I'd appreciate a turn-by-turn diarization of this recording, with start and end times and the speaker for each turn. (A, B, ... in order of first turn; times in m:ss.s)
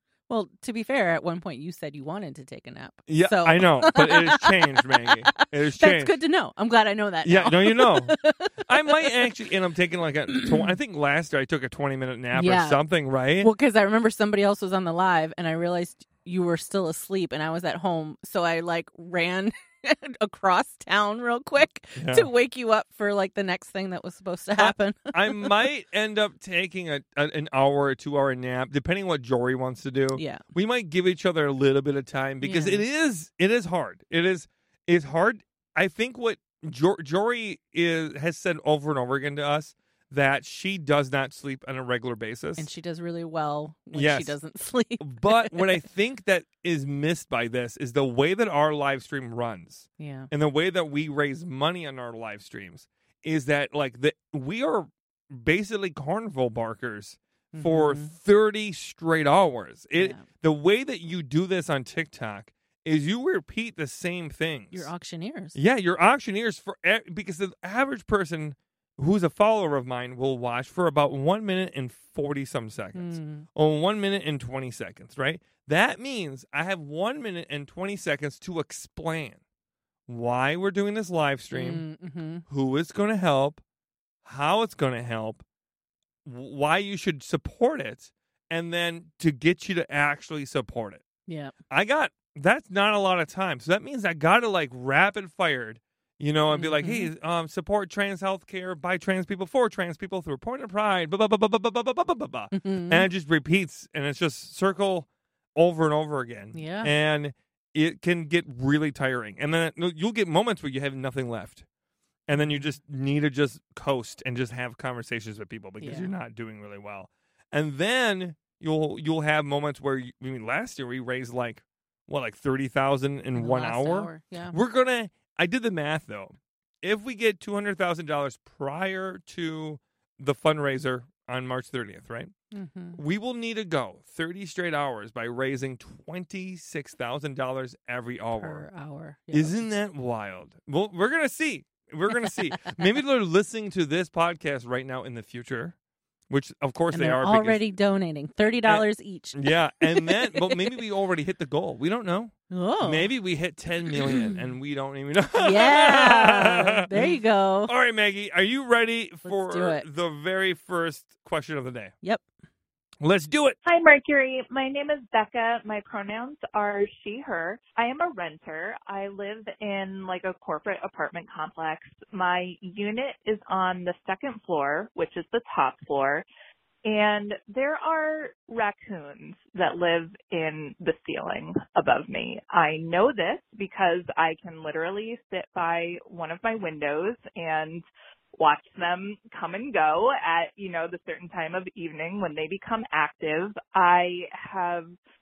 0:00.3-0:09.1 A
0:03.1-0:06.2 B
0:07.2-0:13.5 B
0:10.4-0:10.8 A
0:12.3-0:12.8 A
0:13.4-0:25.5 A
0:22.0-0:22.3 B
0:24.6-0:42.7 B
0:30.2-0:30.4 A
0:32.4-0:32.8 A
0:42.6-0:45.8 A
0:43.9-0:44.4 B
0:45.0-1:04.9 B
0:50.0-0:50.3 A
0:57.5-0:58.1 A
1:00.0-1:00.3 A
1:04.7-1:05.6 A
1:05.6-1:19.4 B
1:13.0-1:13.5 A
1:20.1-1:21.8 B
1:21.5-1:22.4 A
1:22.5-1:23.6 B
1:24.2-1:25.4 B
1:26.2-1:31.0 B
1:31.3-1:31.6 A
1:31.7-1:51.6 B
1:36.5-1:37.1 A
1:42.5-1:43.1 A
1:46.5-1:46.9 A
1:52.3-2:12.3 B
1:52.3-1:52.7 A
1:55.8-1:56.1 A
2:03.4-2:04.6 A
2:12.5-2:13.0 A
2:13.0-2:18.7 B
2:18.4-2:19.8 A
2:19.3-2:25.8 B
2:26.3-2:27.6 B
2:26.9-2:30.8 A
2:28.7-2:37.1 B
2:32.5-2:33.1 A
2:34.0-2:34.4 A
2:35.4-2:37.7 A
2:37.7-2:41.9 B
2:39.2-2:39.8 A
2:43.0-2:43.6 B
2:43.6-2:56.2 C
2:56.8-3:07.8 C
3:08.4-3:14.9 C